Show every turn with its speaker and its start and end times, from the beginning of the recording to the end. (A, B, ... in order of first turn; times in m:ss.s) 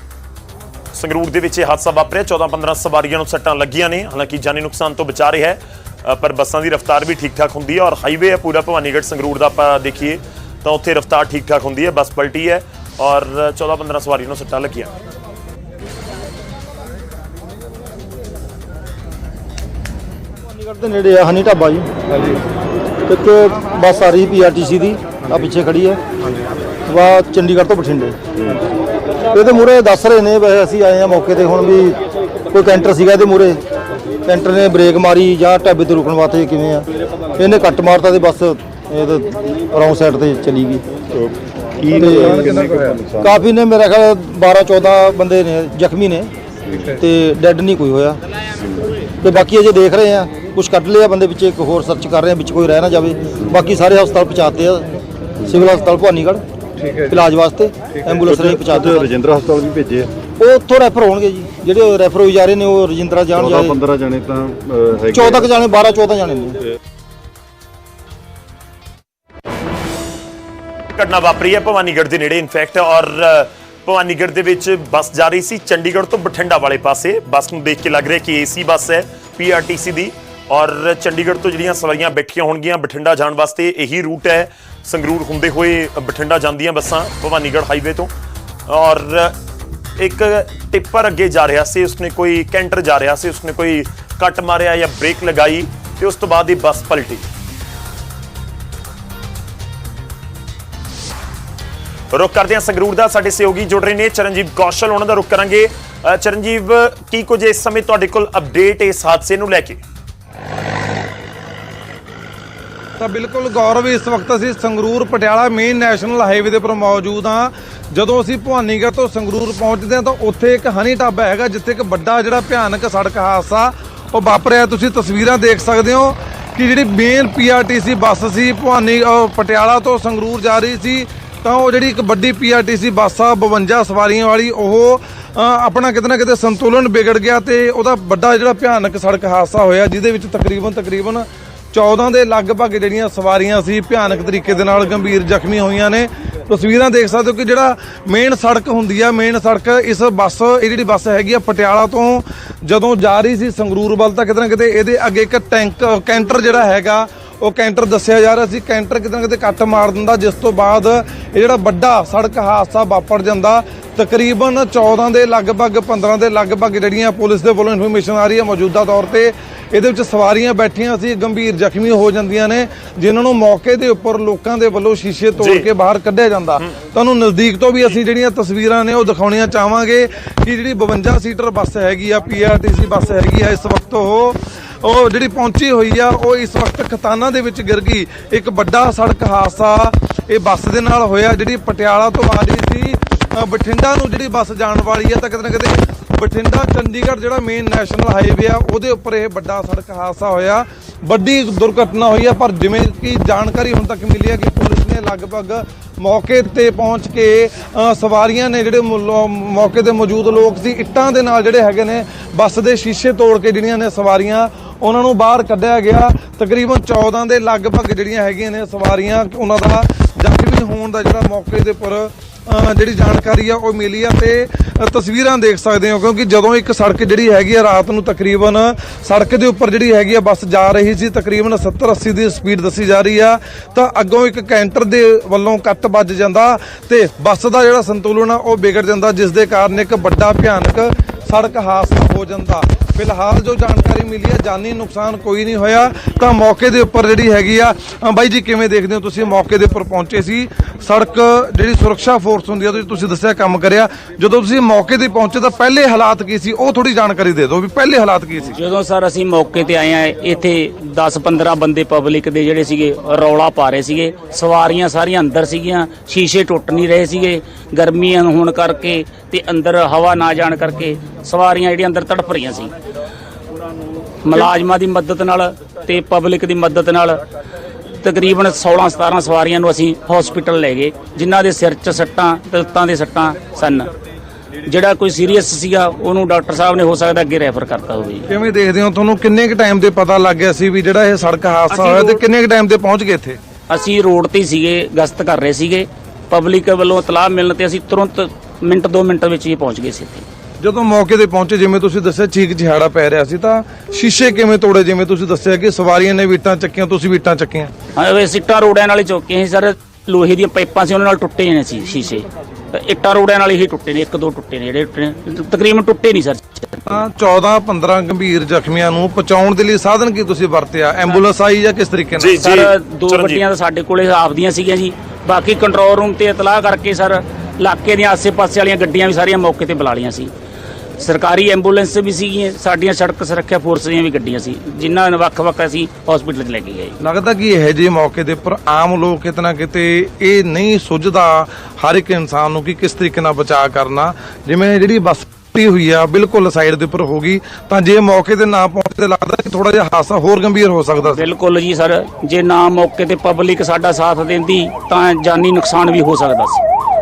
0:00.9-0:14.9 A
0:20.5-0:21.9 B
0:23.1-0:26.0 B
0:26.9-0:28.2 B
0:29.3-0:32.0 B
0:32.5-0:33.6 B
0:34.3-0:40.8 B
0:41.2-0:43.4 C
0:41.9-0:42.6 B
0:41.9-0:43.0 D
0:43.2-0:46.3 B
0:46.7-0:47.0 C
0:46.9-0:48.2 B
0:49.2-0:56.4 B
0:57.0-0:59.1 B
0:58.2-1:00.1 C
1:00.4-1:03.8 B
1:03.3-1:05.5 C
1:05.1-1:06.6 B
1:11.0-1:28.1 A
1:28.7-1:29.3 A
1:30.0-1:37.3 A
1:42.1-1:49.8 A
1:53.0-4:18.6 D
2:55.4-2:55.7 A
4:18.4-4:32.7 E
4:34.2-4:37.2 E
4:38.0-4:43.9 E
4:44.7-4:48.3 E
4:48.3-4:53.4 D
4:51.7-4:52.2 E
4:53.7-5:00.2 E
5:00.6-5:07.7 D
5:08.0-5:17.0 E
5:16.9-5:22.5 D
5:22.2-5:23.4 A
5:22.4-5:30.3 E
5:31.0-5:37.0 E
5:37.0-5:51.3 D
5:51.1-5:56.6 E